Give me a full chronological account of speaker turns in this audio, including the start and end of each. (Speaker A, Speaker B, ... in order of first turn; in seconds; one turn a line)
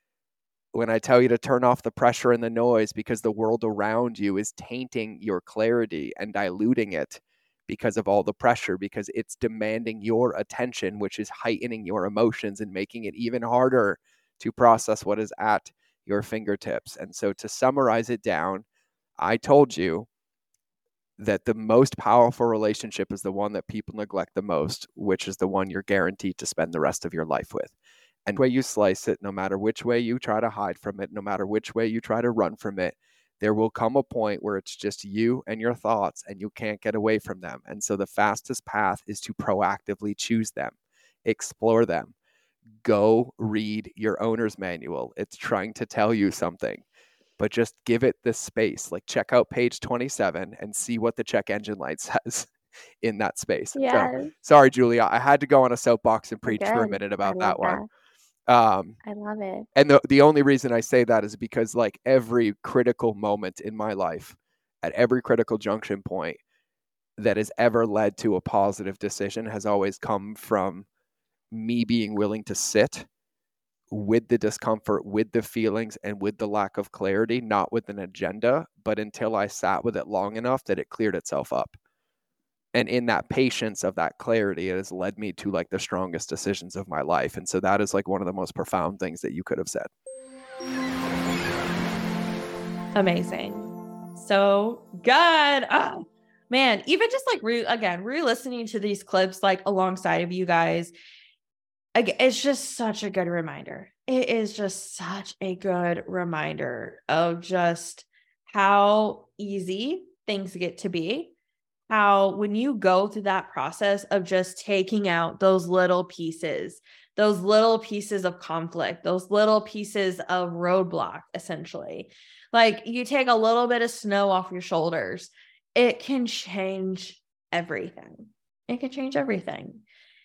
Speaker A: 0.7-18.6
Speaker A: 19.2-20.1
Speaker A: 21.2-27.7
Speaker A: 28.3-42.1
Speaker A: 42.8-46.8
Speaker A: 47.4-52.5
Speaker A: 53.0-57.8
Speaker B: 53.7-54.3
Speaker B: 56.4-57.9
Speaker A: 58.5-59.0
Speaker B: 59.0-59.6
Speaker A: 59.7-66.4
Speaker A: 67.2-70.8
Speaker A: 71.5-73.1
Speaker A: 73.9-81.8
Speaker A: 82.7-89.9
Speaker C: 92.9-100.9
Speaker C: 102.0-111.3
Speaker C: 111.9-129.8